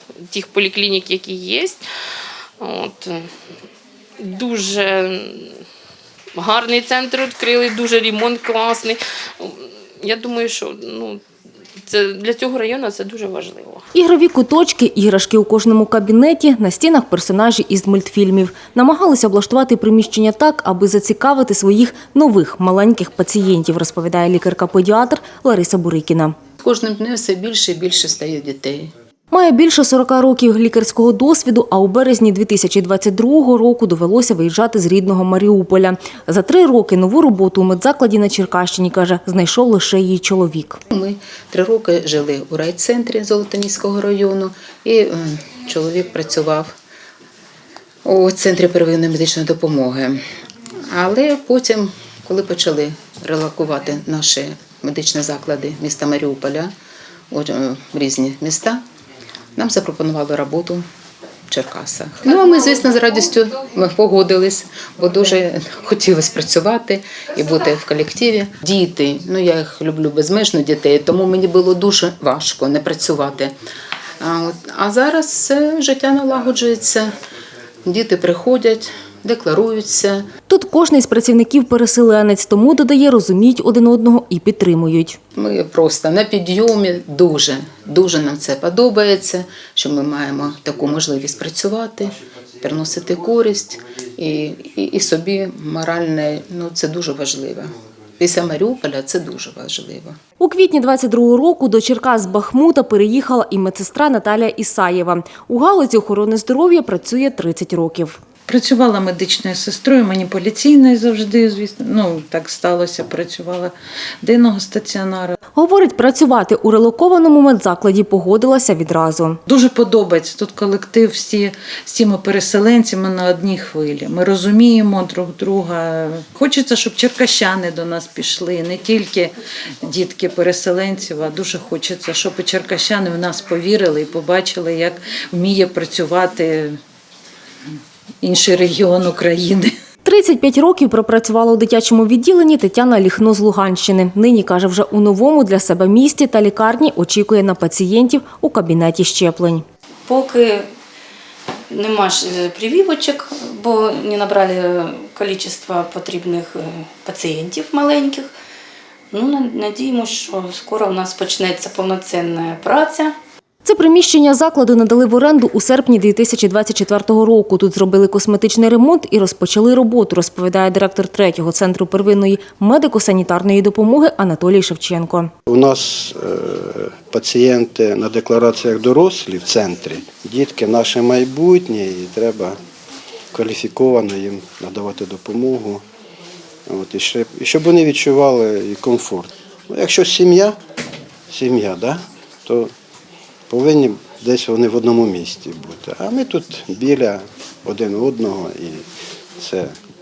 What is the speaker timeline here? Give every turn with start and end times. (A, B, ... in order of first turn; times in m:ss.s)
0:00.3-0:01.8 A
0:02.6-0:03.3 A
0:04.2-0:05.6 A
0:06.3-0:11.2 A
0:11.9-0:13.8 A
0:13.9-0:26.4 B
0:26.6-0:28.9 C
0:29.3-0:40.8 B
0:40.9-0:46.8 C
0:48.0-0:50.2 C
0:50.9-0:56.7 C
0:57.3-0:58.8 C
0:59.6-1:00.8 C
1:01.5-1:13.6 C
1:14.2-1:17.1 C
1:17.8-1:20.2 C
1:20.5-1:25.2 B
1:25.3-1:40.2 C
1:40.4-1:48.2 B
1:48.5-1:55.4 D
1:55.6-1:59.4 B
1:59.4-2:16.8 D
2:18.2-2:19.7 D
2:20.0-2:29.6 B
2:30.1-2:30.7 E
2:31.7-2:38.3 E
2:39.1-2:43.2 E
2:43.6-2:55.3 B
2:55.5-3:02.6 F
3:03.3-3:05.8 F
3:06.7-3:10.6 F
3:11.3-3:12.7 F
3:13.5-3:18.8 F
3:19.4-3:19.7 F